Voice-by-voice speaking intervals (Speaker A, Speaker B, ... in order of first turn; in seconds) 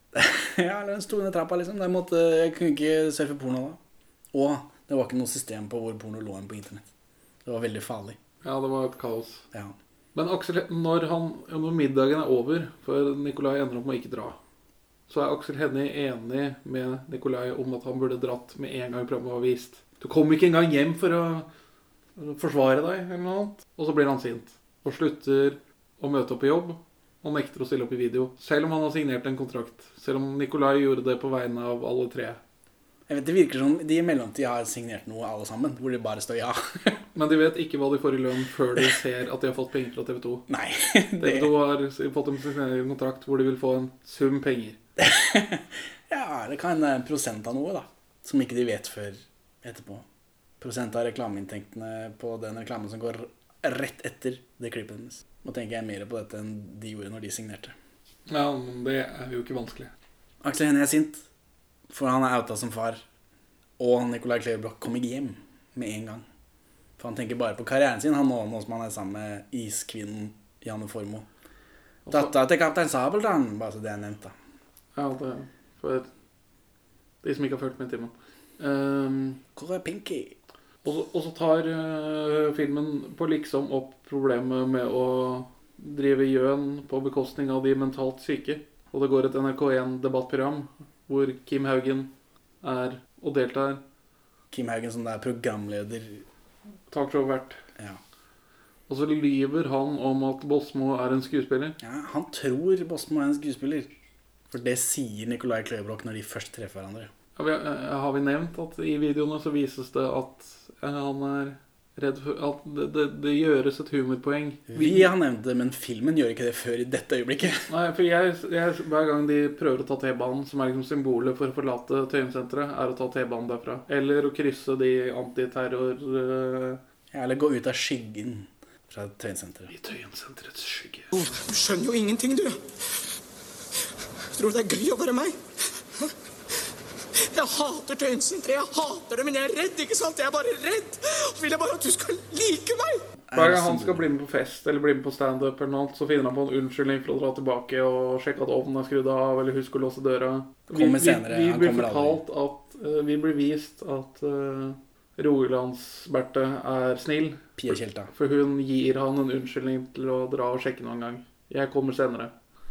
Speaker A: 0.1-3.8, 4.3-6.9, 7.5-8.2, 33.1-37.0, 40.5-41.5, 45.0-50.0, 50.6-57.8, 60.4-61.2, 61.9-63.0, 63.8-66.2, 67.0-71.3, 72.1-74.3, 79.6-80.3, 94.5-96.2, 101.8-103.9, 104.5-107.1, 114.7-117.7, 127.1-129.7, 143.3-144.1, 150.7-152.2, 157.6-158.1
Speaker B: 8.4-9.5, 10.1-14.4, 15.1-21.5, 22.2-32.4, 37.1-40.5, 41.2-44.8, 58.3-59.9, 72.1-72.3, 75.0-76.1, 77.2-79.4, 80.8-92.1, 92.6-93.8, 96.9-97.6, 98.9-101.8, 107.4-115.1, 117.7-126.8, 129.7-131.1, 143.3-162.3
Speaker C: 131.1-132.5, 134.4-135.3, 137.4-142.8